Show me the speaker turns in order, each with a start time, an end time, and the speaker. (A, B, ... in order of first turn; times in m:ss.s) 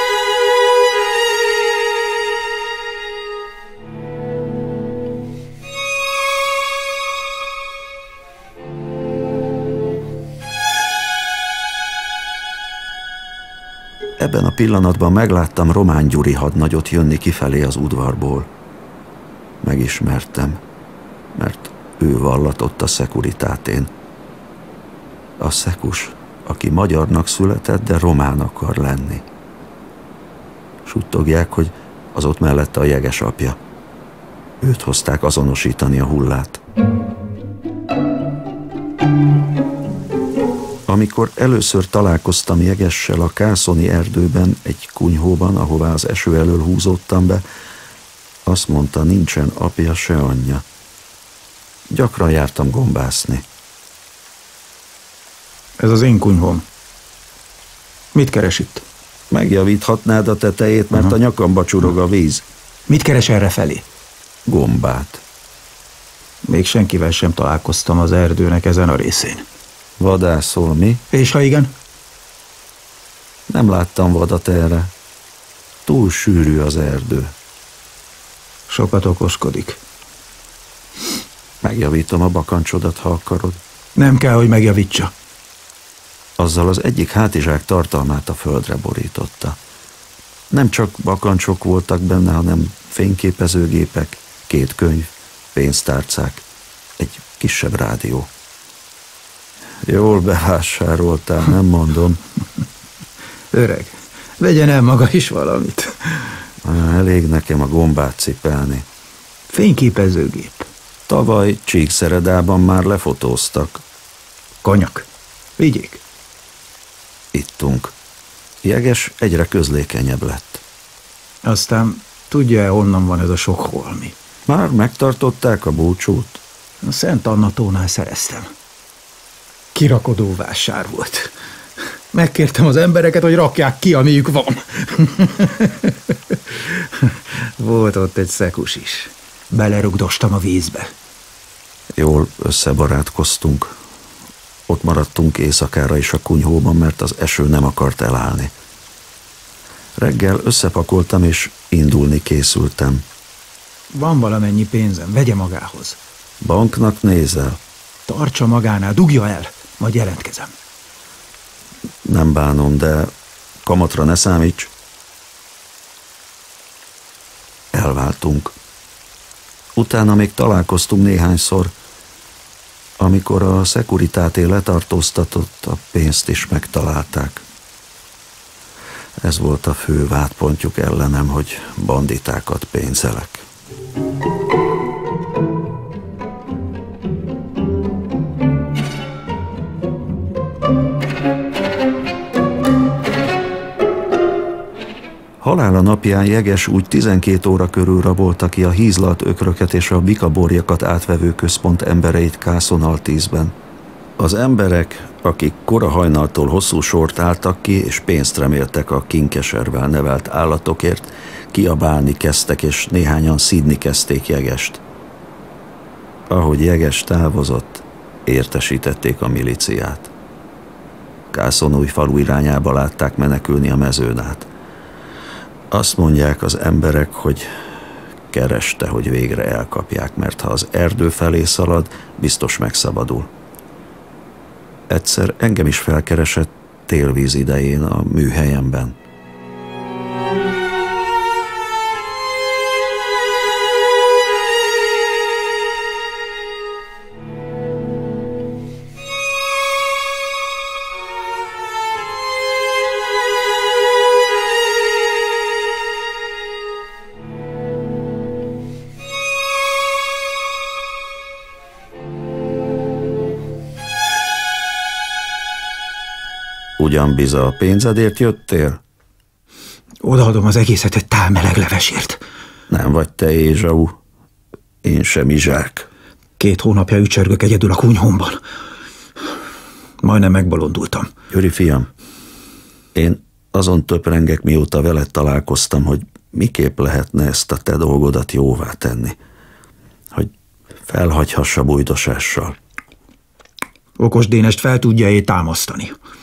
0:14.2-0:18.5 A
0:19.6-0:20.6 A
0:21.3-0:23.9 A
0:25.4-0:29.2 A
0:30.8-0:33.6 A
0:34.6-0:36.6 A
0:40.9-0:47.4 A
0:48.4-0:50.6 A
0:51.9-0:53.4 A
0:55.8-0:56.6 B
0:58.1-0:58.8 B
0:59.3-1:02.4 A
1:02.9-1:03.8 B
1:04.4-1:05.2 A
1:06.4-1:09.4 B
1:10.0-1:11.0 A
1:11.1-1:11.7 B
1:13.5-1:14.9 A
1:15.8-1:17.3 A
1:18.7-1:19.8 B
1:21.6-1:23.6 A
1:24.0-1:25.1 B
1:26.4-1:29.6 A
1:30.5-1:36.4 A
1:37.0-1:38.3 A
1:39.8-1:42.2 A
1:43.5-1:46.2 B
1:46.6-1:48.8 A
1:49.5-1:50.7 B
1:51.1-1:53.8 A
1:54.6-1:55.0 B
1:55.6-1:56.0 B
1:57.3-1:57.9 A
1:58.6-2:00.6 A
2:01.4-2:04.1 B
2:04.4-2:06.4 A
2:06.8-2:08.5 B
2:09.7-2:11.3 B
2:12.1-2:15.9 B
2:17.1-2:20.9 B
2:21.9-2:23.8 A
2:24.7-2:28.5 A
2:30.0-2:33.0 A
2:33.9-2:36.0 B
2:36.4-2:37.6 A
2:38.1-2:40.5 B
2:42.0-2:43.1 A
2:43.6-2:44.7 A
2:47.7-2:48.5 A
2:49.8-2:51.7 A
2:53.0-2:57.4 A
2:59.2-3:03.4 A
3:15.4-3:23.5 A
3:24.2-3:34.8 A
3:36.3-3:40.1 A
3:41.3-3:44.5 A
3:45.7-3:47.5 A
3:48.3-3:53.3 A
3:54.9-3:59.0 A
4:26.8-4:28.8 A
4:30.0-4:32.2 B
4:32.7-4:34.0 A
4:34.8-4:35.9 A
4:36.4-4:38.4 B
4:40.0-4:41.1 B
4:41.3-4:41.9 A
4:42.9-4:49.2 A
4:50.8-4:52.6 A
4:54.0-4:55.9 B